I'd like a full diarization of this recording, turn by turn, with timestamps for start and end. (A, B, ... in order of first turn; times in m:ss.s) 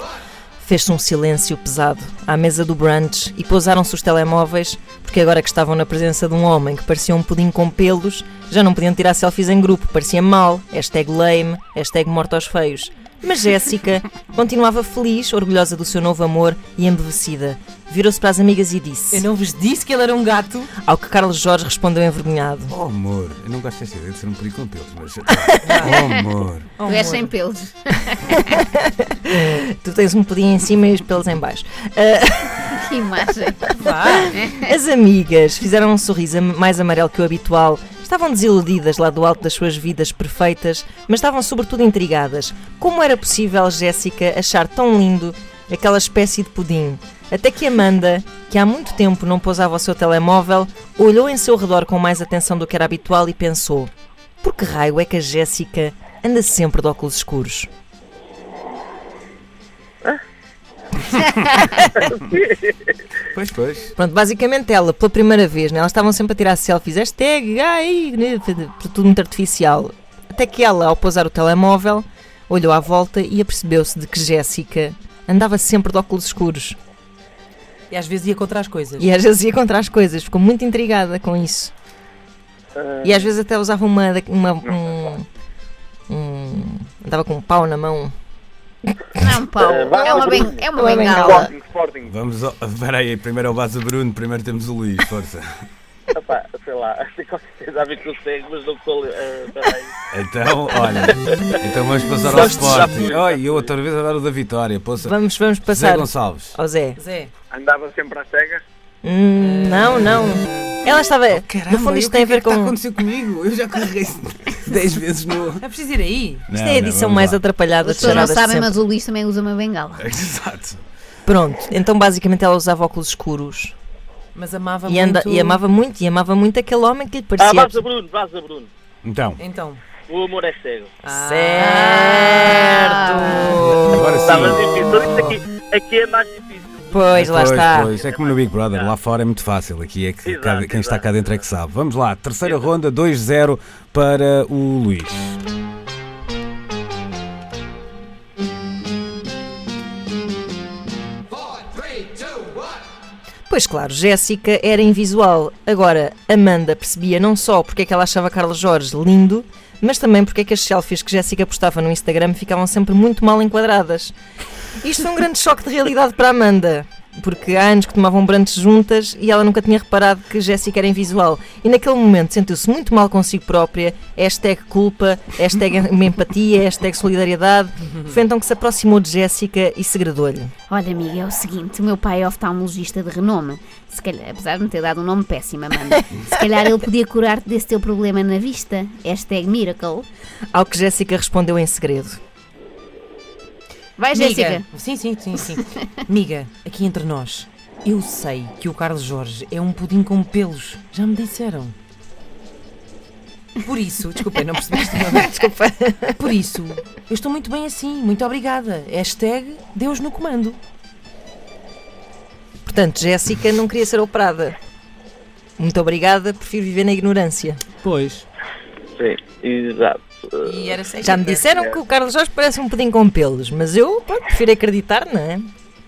0:00.6-0:19.3 A
0:19.1-0:20.7 B
0:20.8-0:22.7 A
0:22.7-0:26.7 C
0:25.6-0:26.0 B
0:26.8-0:27.3 B
0:26.8-0:28.4 D
0:28.3-0:32.8 A
0:32.7-0:33.6 D
0:33.7-0:34.4 B
0:33.9-0:53.9 A
0:34.3-0:34.7 D
0:54.4-0:57.7 A
1:01.2-1:01.6 C
1:02.0-1:02.6 E
1:03.3-1:03.9 C
1:04.0-1:16.8 A
1:17.9-1:19.1 B
1:19.0-1:21.7 A
1:22.8-1:23.3 E
1:23.0-1:25.3 A
1:26.1-1:28.1 A
1:29.2-1:31.5 D
1:29.6-1:30.7 E
1:29.9-1:32.1 F
1:30.8-1:31.5 A
1:32.1-1:35.4 C
1:36.1-1:39.9 E
1:40.1-1:45.1 C
1:40.8-1:41.5 E
1:42.1-1:43.7 E
1:42.2-1:42.9 A
1:45.0-1:47.0 A
1:45.7-1:46.6 C
1:47.0-1:47.3 B
1:47.5-1:48.6 F
1:49.0-1:52.8 A
1:49.4-1:50.8 B
1:51.3-1:55.6 C
1:55.6-1:56.4 B
1:56.5-1:57.4 C
1:56.6-1:58.8 A
1:57.8-2:00.1 D
2:00.0-2:00.8 C
2:01.2-2:03.7 A
2:04.3-2:05.6 B
2:04.9-2:07.8 A
2:07.4-2:08.7 E
2:09.0-2:09.4 C
2:09.4-2:09.8 B
2:10.1-2:10.9 E
2:11.0-2:12.6 B
2:11.0-2:14.3 A
2:12.4-2:13.6 D
2:13.8-2:14.6 C
2:14.2-2:17.2 E
2:15.0-2:15.3 A
2:16.9-2:17.9 A
2:17.1-2:25.4 C
2:17.8-2:19.0 E
2:20.2-2:21.4 E
2:22.4-2:22.7 E
2:33.5-2:44.1 A
2:44.8-3:00.5 A
2:57.9-2:58.1 B
3:00.7-3:10.1 D
3:10.5-3:12.2 A
3:14.0-3:14.6 D
3:14.1-3:21.8 B
3:23.6-3:25.4 B
3:24.8-3:26.2 A
3:26.2-3:30.6 B
3:32.6-3:34.5 A
3:35.6-3:37.6 A
3:37.8-3:38.2 C
3:39.0-3:40.8 E
3:40.4-3:41.5 B
3:41.0-3:45.5 A